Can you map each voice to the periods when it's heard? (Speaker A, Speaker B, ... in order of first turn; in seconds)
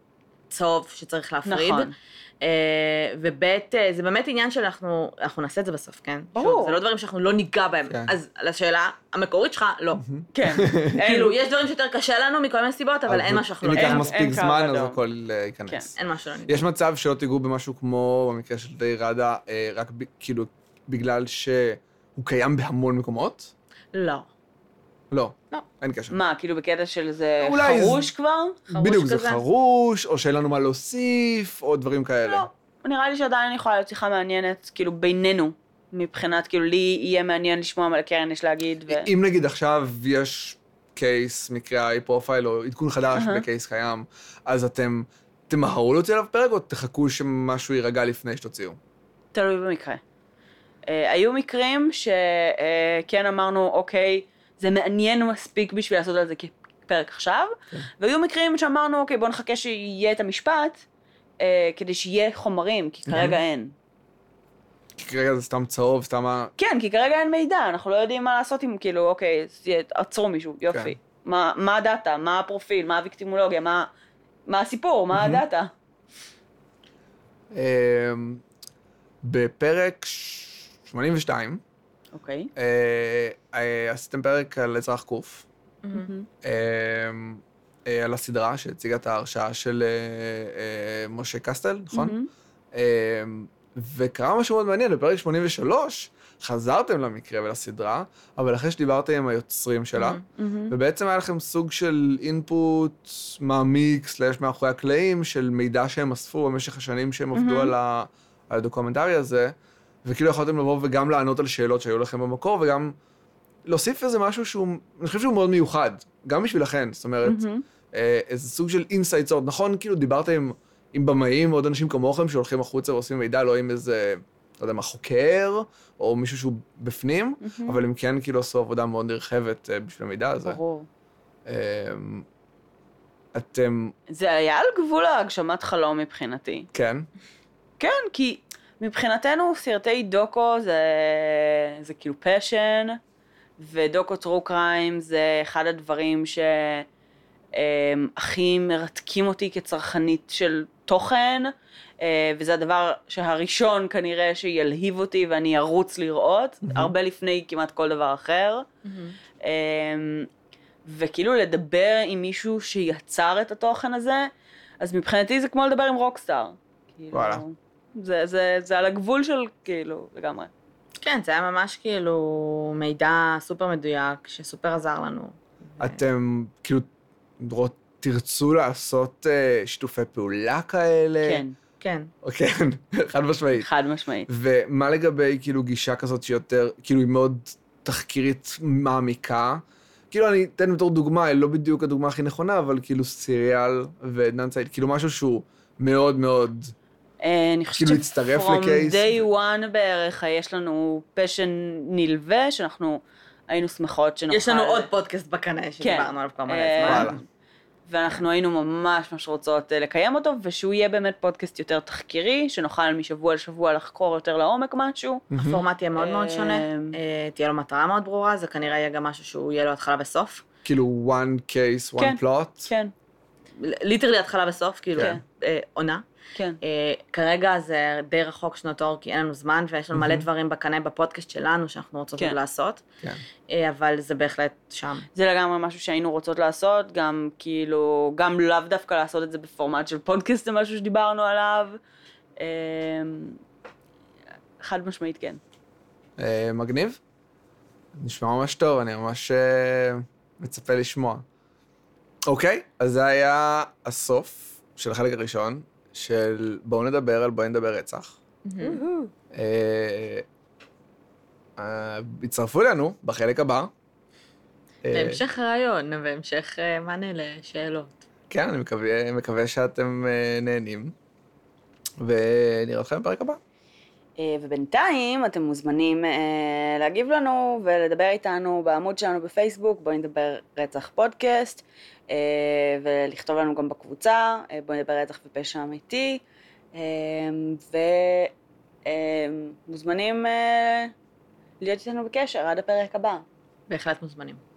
Speaker A: 0.5-10.0, 10.9-14.1, 15.9-16.6, 23.9-24.3, 28.7-29.4, 85.8-86.1, 100.0-100.2, 158.8-159.2, 171.0-176.0, 181.8-182.1, 204.3-207.2, 215.4-220.4, 223.6-226.0, 226.6-232.8, 233.5-235.1, 258.4-258.8, 264.9-267.9, 293.7-294.4
Speaker B: 1.4-1.9, 6.3-6.8, 10.3-11.4, 13.7-15.0, 26.1-28.6, 32.3-39.1, 43.1-43.4, 49.3-50.0, 50.9-60.8, 61.4-63.7, 66.6-73.9, 74.5-75.7, 82.1-82.5, 85.9-86.3, 91.9-92.3, 100.4-100.7, 107.3-107.7, 117.2-117.6, 127.4-127.8, 130.4-130.9, 134.1-136.7, 137.8-143.0, 143.6-146.9, 147.5-158.7, 159.4-160.3, 160.9-164.3, 164.8-170.5, 181.2-181.6, 183.6-184.3, 197.2-204.9, 205.8-207.2, 207.9-215.3, 216.0-217.0, 222.0-222.9, 235.1-241.8, 242.4-243.4, 244.6-245.4, 274.2-286.2, 286.7-288.3, 288.9-290.9, 291.6-293.2
Speaker C: 7.9-8.2, 10.0-10.9, 13.1-15.9, 16.5-23.5, 25.1-26.2, 27.4-28.1, 28.7-32.5, 38.9-48.8, 63.1-63.4, 65.0-66.5, 70.7-70.9, 75.1-75.4, 77.5-78.4, 79.2-81.6, 82.6-85.5, 86.4-92.2, 92.7-113.0, 113.7-130.6, 131.4-132.3, 133.3-133.9, 136.7-137.1, 156.6-156.9, 167.1-167.4, 175.8-176.9, 177.4-181.4, 182.2-183.7, 184.3-196.7, 197.8-199.2, 206.8-207.2, 215.3-215.6, 220.7-222.7, 229.9-230.2, 246.2-247.0, 248.0-251.2, 252.3-258.2, 259.3-260.3, 261.6-263.7, 264.8-265.2, 268.3-270.9, 272.0-273.4